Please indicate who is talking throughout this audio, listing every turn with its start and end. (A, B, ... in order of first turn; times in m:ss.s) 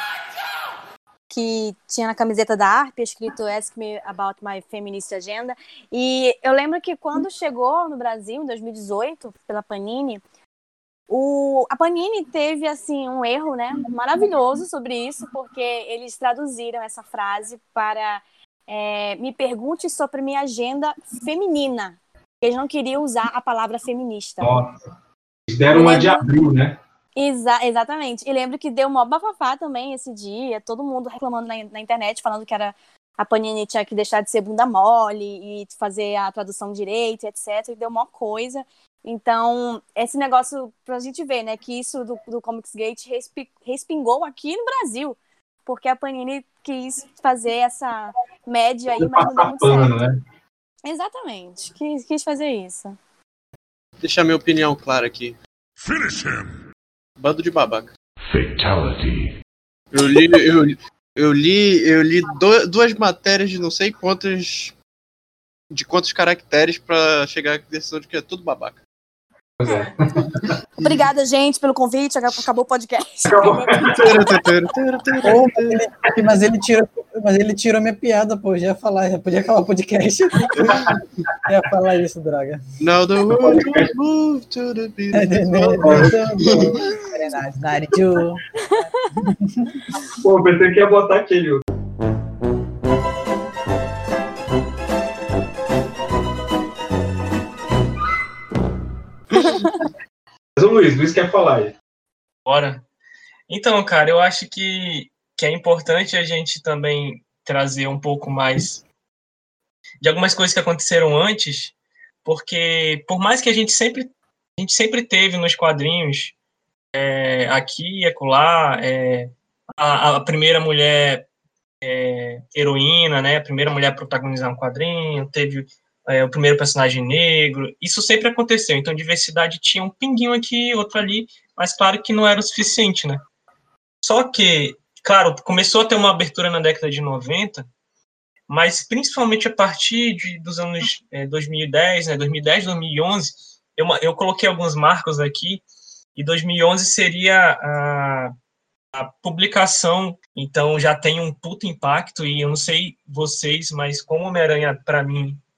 0:01.3-0:10.2 A
0:11.1-0:24.5 A
0:24.4-0:24.8 B
0:25.5-0:26.8 B
0:25.7-0:26.3 A
0:27.2-0:50.0 A
0:49.0-0:50.2 B
0:50.8-0:53.0 A
0:54.0-0:55.4 C
0:57.2-0:57.9 C
0:59.9-1:04.8 C
1:05.7-1:08.8 C
1:09.6-1:10.6 B
1:09.7-1:10.0 A
1:10.8-1:14.3 A
1:13.3-1:14.2 B
1:13.9-1:15.8 C
1:15.2-1:20.8 D
1:20.6-1:20.9 C
1:20.7-1:21.0 B
1:21.5-1:22.6 D
1:22.8-1:26.8 C
1:23.3-1:23.9 B
1:25.1-1:28.4 D
1:25.8-1:26.2 B
1:28.7-1:29.0 A
1:29.2-1:29.7 D
1:30.2-1:31.6 B
1:40.6-1:41.8 B
1:42.4-1:42.8 E
1:43.5-1:48.8 E
1:50.0-1:51.7 E
1:52.2-1:56.4 E
1:56.9-2:01.3 E
2:01.8-2:13.2 E
2:14.0-2:17.7 E
2:18.5-2:25.6 E
2:26.2-2:28.3 E
2:28.9-2:35.4 E